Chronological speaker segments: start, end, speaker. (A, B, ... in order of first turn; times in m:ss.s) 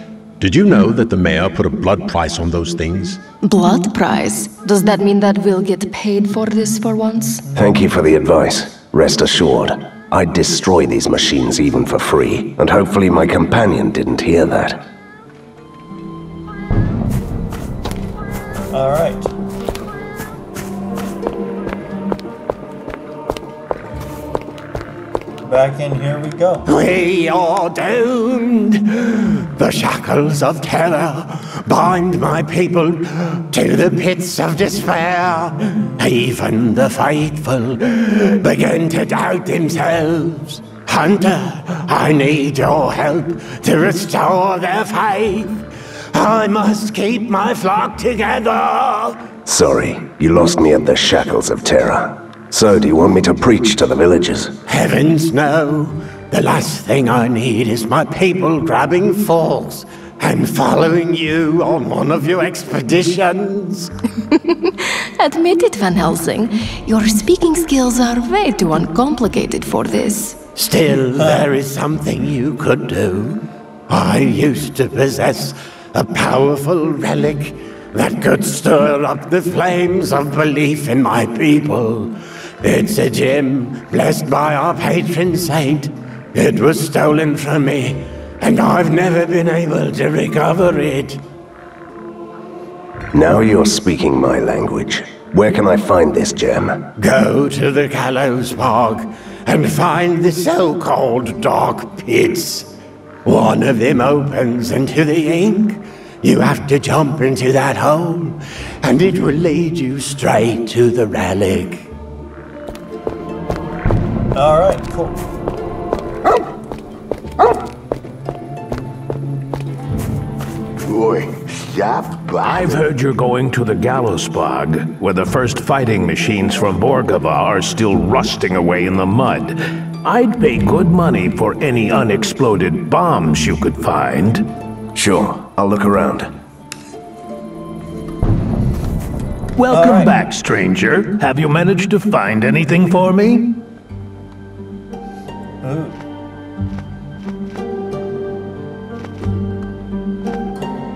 0:00.4-0:03.2 A
0:03.4-0:07.4 B
0:07.5-0:07.8 C
0:07.5-0:14.8 D
0:18.7-0:19.3 C
0:25.4-0:26.6 C
0:26.7-0:49.3 E
0:49.4-0:54.6 D
0:54.6-1:03.9 E
1:04.3-1:10.4 B
1:10.6-1:31.2 E
1:11.2-1:11.4 C
1:33.1-1:36.9 D
1:37.0-1:42.7 E
1:43.2-1:51.9 E
1:54.3-1:55.2 C
2:02.2-2:14.5 F
2:14.9-2:16.3 D
2:19.6-2:23.6 F
2:19.7-2:20.2 C
2:25.6-2:26.0 C